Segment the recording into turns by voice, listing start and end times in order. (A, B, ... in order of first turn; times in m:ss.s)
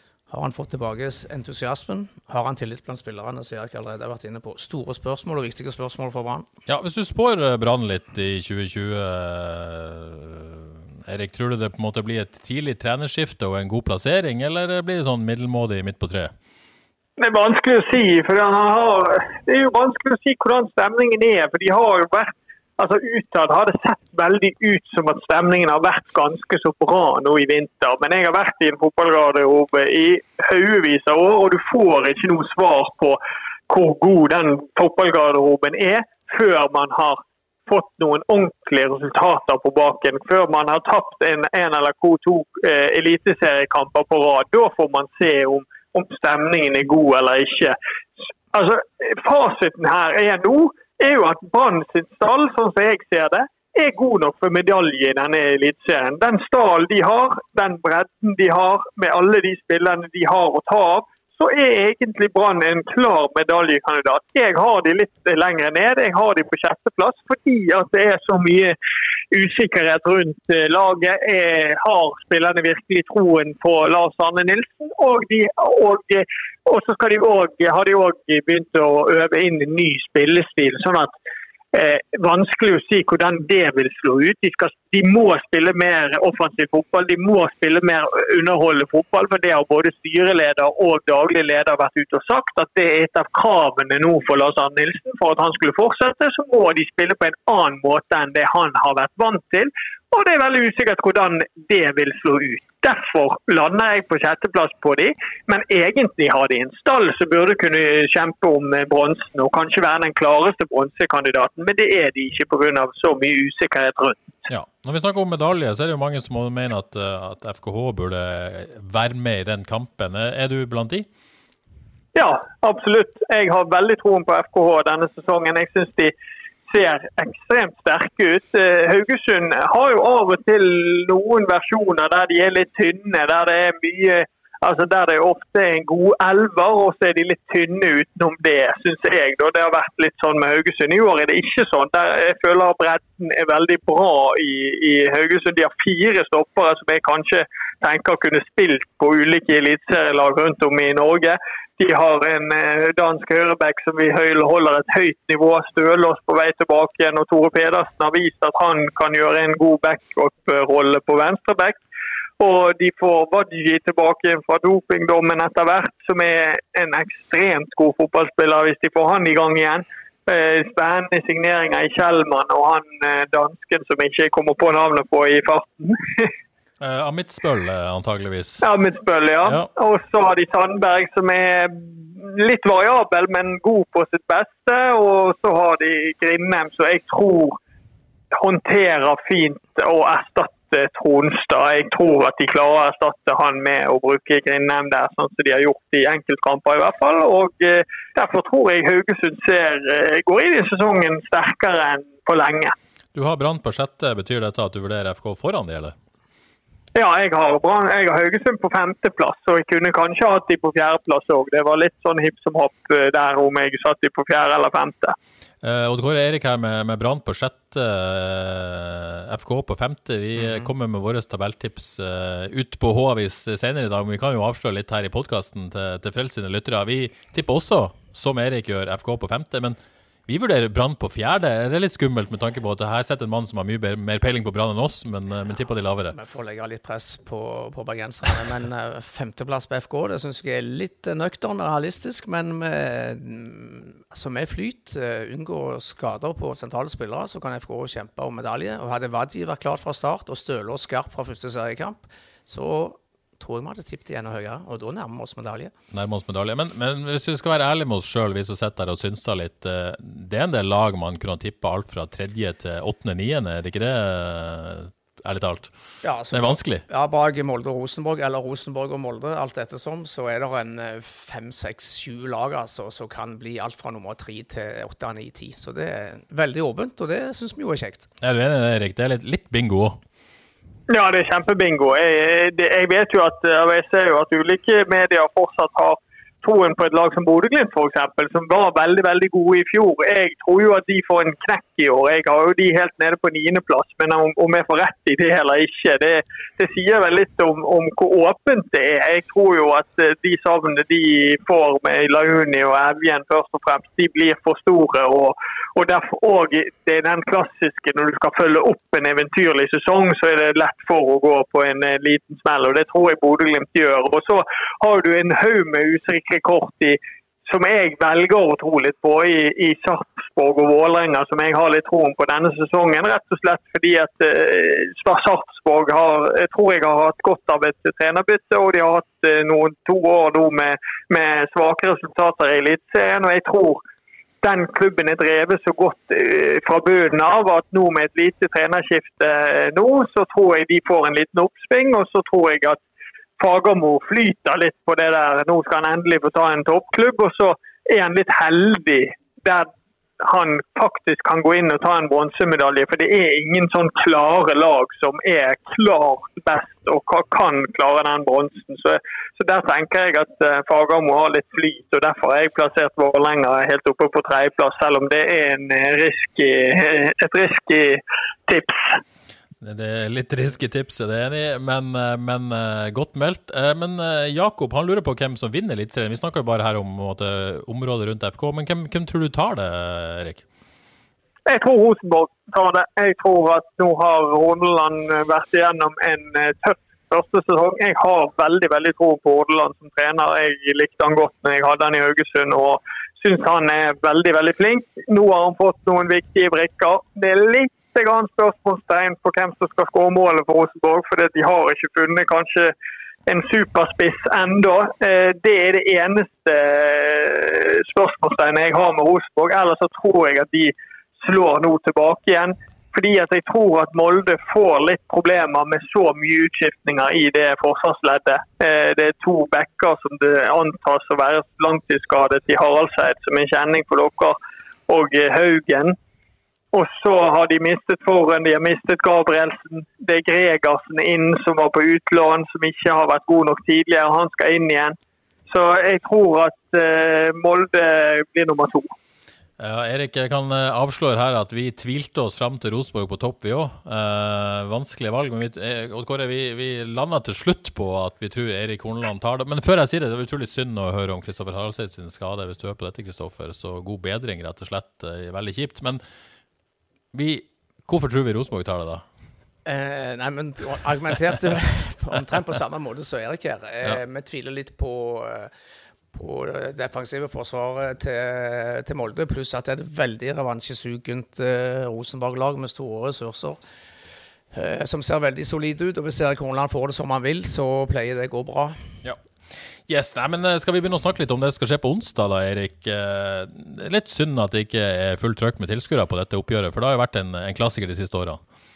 0:00.3-0:06.5 A
0:06.7-0:16.3 B
0:17.2-0:47.8 C
0:48.5-1:08.8 C
1:09.3-1:21.1 C
1:21.7-1:54.3 C
1:54.5-2:01.1 B
2:02.2-2:06.1 C
2:06.7-2:41.8 C
2:42.4-2:56.3 C
2:56.8-2:58.6 B
2:58.6-3:07.6 C
3:08.3-3:22.8 C
3:23.1-3:26.0 B
3:27.0-3:35.2 C
3:35.6-3:56.2 B
3:40.4-3:40.7 A
3:56.1-4:15.7 A
4:15.9-4:25.7 B
4:26.0-4:38.1 A
4:26.3-4:26.8 B
4:38.2-4:40.0 B
4:40.9-5:33.8 C
5:34.4-5:42.8 C
5:43.4-5:49.7 C
5:50.2-6:09.0 C
6:09.6-6:20.4 B
6:21.5-6:42.7 C
6:43.3-7:04.4 C
7:04.9-7:06.0 C
7:06.7-7:15.0 C
7:15.5-7:18.9 C
7:19.6-7:36.0 B
7:37.1-7:39.0 B
7:39.6-7:45.5 A
7:46.1-7:53.6 A
7:54.5-7:58.8 A
7:59.9-8:08.4 B